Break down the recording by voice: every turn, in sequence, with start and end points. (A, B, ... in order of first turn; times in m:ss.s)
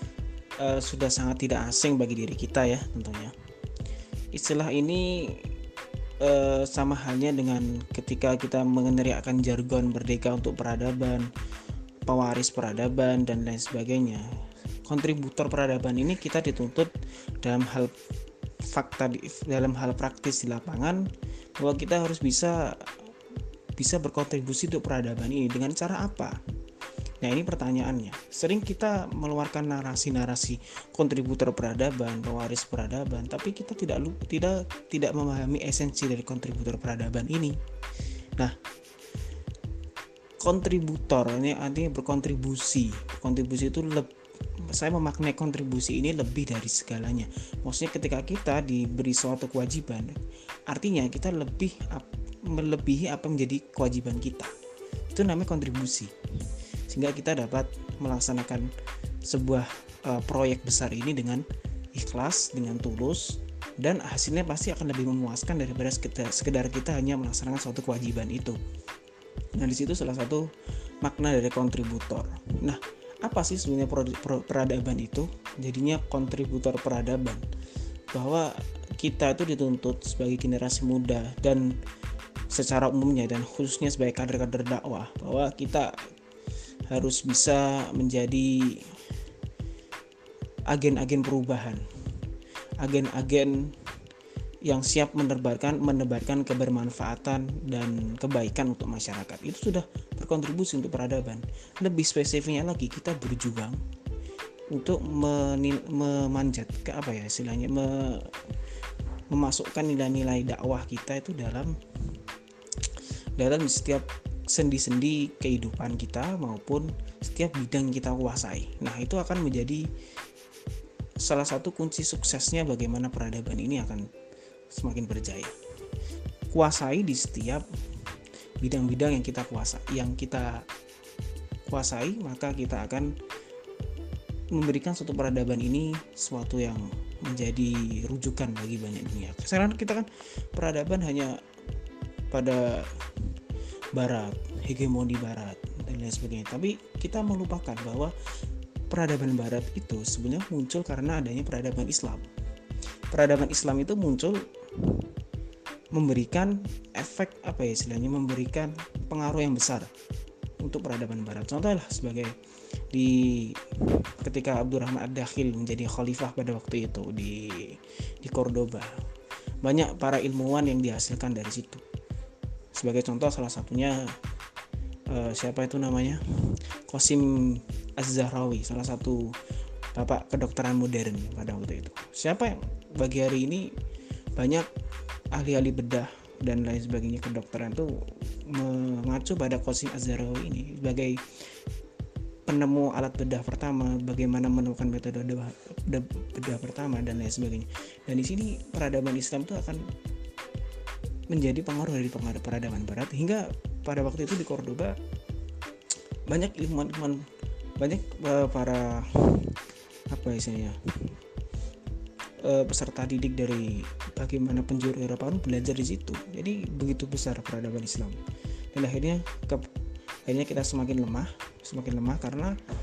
0:00.6-0:03.3 A
0:04.3-0:05.5 A
0:06.2-0:11.3 A
0:12.1-0:14.3 A
0:14.8-0:17.9 A
0:18.6-0:23.1 A
0:23.8-0:26.4 A
0:27.2-0:37.6 A
0:40.4-0:54.5 A
0:55.1-0:56.2 A
0:56.9-0:58.7 A
0:59.2-1:08.6 A
1:09.6-1:10.5 A
1:11.0-1:17.4 A
1:18.1-1:21.8 A
1:22.5-1:26.0 A
1:26.9-1:29.0 A
1:30.7-1:31.8 A
1:32.8-1:33.8 A
1:34.6-1:43.8 A
1:44.7-1:48.4 A
1:49.3-1:51.8 A
1:53.4-1:59.9 A
2:01.2-2:04.1 A
2:04.7-2:05.6 A
2:06.5-2:07.7 A
2:08.6-2:10.7 A
2:11.7-2:13.2 A
2:14.5-2:21.4 A
2:22.3-2:23.2 A
2:24.0-2:28.2 A
2:28.9-2:32.3 A
2:33.1-2:35.1 A
2:35.9-2:39.9 A
2:40.6-2:42.4 A
2:42.9-2:49.0 A
2:49.6-2:51.8 A
2:52.8-2:54.2 A
2:55.1-2:59.4 A
3:00.0-3:03.7 A
3:04.4-3:04.7 A
3:05.3-3:11.4 A
3:12.5-3:19.9 A
3:21.3-3:25.0 A
3:26.3-3:27.2 A
3:27.8-3:29.6 A
3:30.1-3:31.2 A
3:32.4-3:38.2 A
3:38.7-3:39.7 A
3:40.3-3:42.6 A